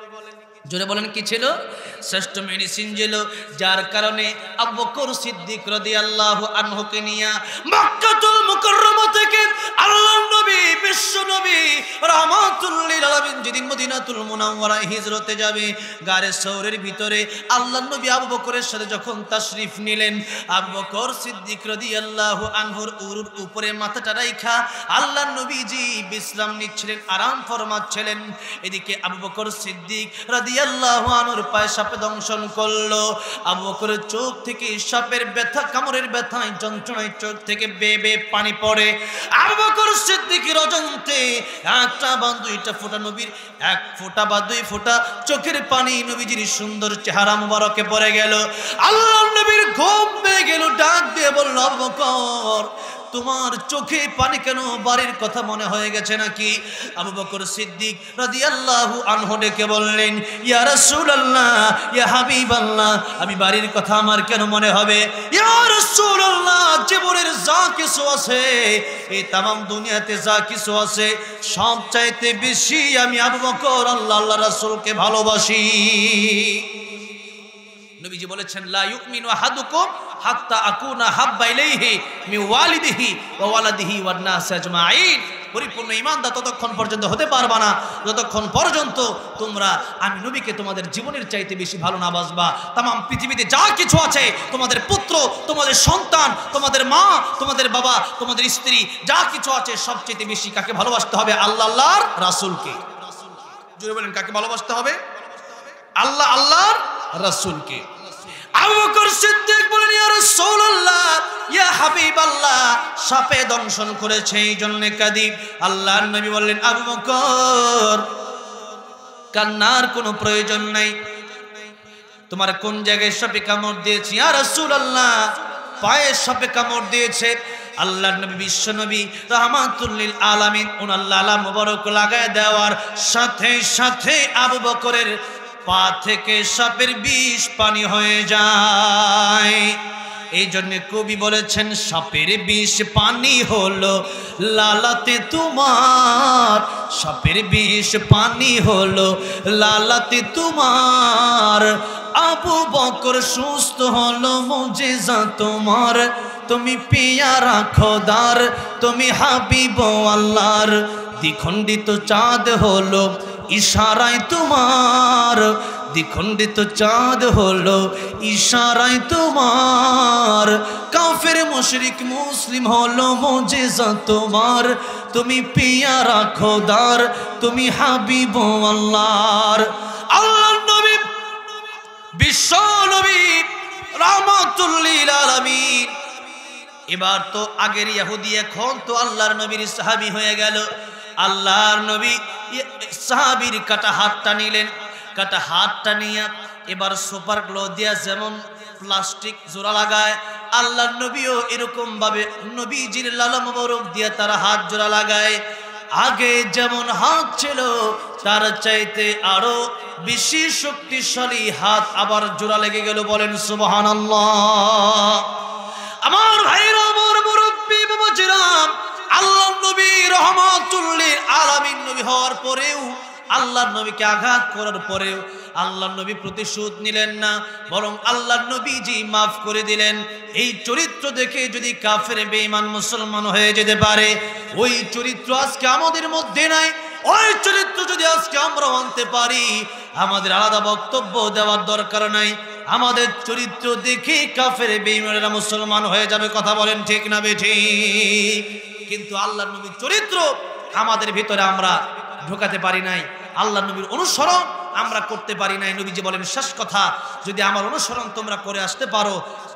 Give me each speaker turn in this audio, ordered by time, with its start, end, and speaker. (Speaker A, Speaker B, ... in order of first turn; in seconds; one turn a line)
Speaker A: 0.7-76.7
Speaker A: 78.0-102.9
Speaker A: 103.6-105.0
Speaker A: 106.0-108.0
Speaker A: 108.5-118.1
Speaker A: 119.3-121.0
Speaker A: 122.3-139.8
Speaker A: 140.3-181.1
Speaker A: 182.2-186.0
Speaker A: 186.9-190.7
Speaker A: 191.2-205.4
Speaker A: 206.0-215.4
Speaker A: 216.0-259.2